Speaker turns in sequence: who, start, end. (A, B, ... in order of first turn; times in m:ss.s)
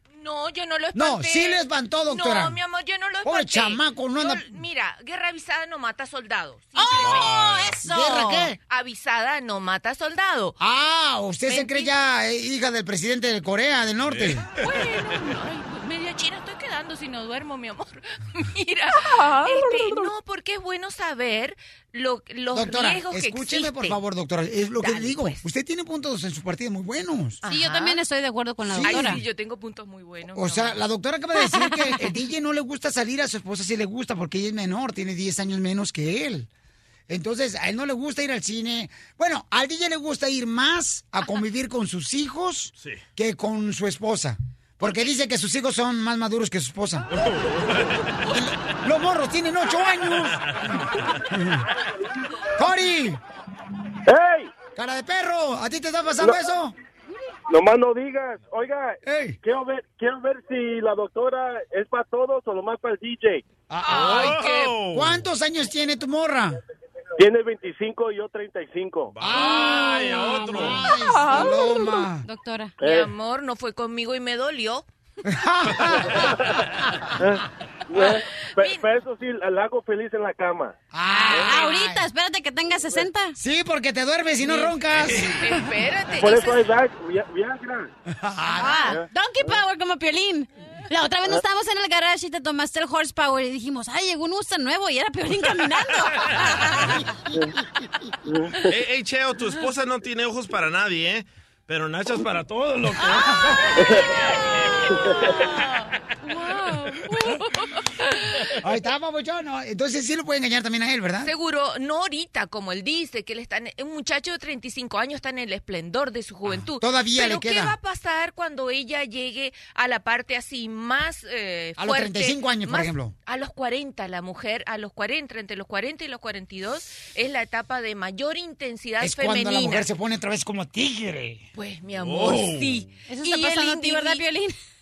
0:00.1-0:07.6 A
0:00.9-0:02.6 B
0:03.2-0:04.6 B
0:06.8-0:08.5 C
0:07.0-0:07.7 D
0:07.8-0:08.6 B
0:08.6-0:10.6 A
0:10.6-0:14.5 B
0:11.5-0:11.9 A
0:14.1-0:14.7 D
0:14.6-0:24.0 A
0:22.5-0:27.4 B
0:24.8-0:25.4 A
0:27.4-0:28.0 A
0:27.5-0:29.2 C
0:28.7-0:29.2 B
0:28.8-0:30.8 A
0:30.3-0:36.5 B
0:31.6-0:31.9 C
0:37.1-0:47.1 B
0:47.2-0:47.9 D
0:48.3-0:50.4 B
0:51.3-0:51.6 B
0:52.6-0:53.2 B
0:54.1-0:54.5 E
0:54.8-0:56.7 B
0:57.5-1:03.4 E
0:59.0-0:59.4 B
1:03.7-1:06.6 B
1:03.9-1:04.7 A
1:03.9-1:05.2 D
1:07.2-1:09.1 E
1:09.1-1:10.9 D
1:09.2-1:12.2 B
1:12.2-1:12.8 C
1:12.8-1:13.1 E
1:12.8-1:14.8 A
1:15.3-1:16.2 B
1:17.9-1:20.7 E
1:18.0-1:18.9 A
1:20.9-1:22.0 B
1:21.1-1:23.4 C
1:23.4-1:25.4 B
1:25.0-1:25.4 D
1:25.4-1:26.8 A
1:26.2-1:27.9 E
1:28.2-1:29.0 B
1:28.5-1:37.0 C
1:38.6-1:43.8 D
1:46.3-1:47.1 C
1:48.6-1:51.3 B
1:51.2-2:09.9 A
1:56.7-1:57.8 B
2:01.8-2:03.1 B
2:09.0-2:11.5 B
2:11.6-2:14.2 A
2:12.0-2:12.8 D
2:13.1-2:14.6 C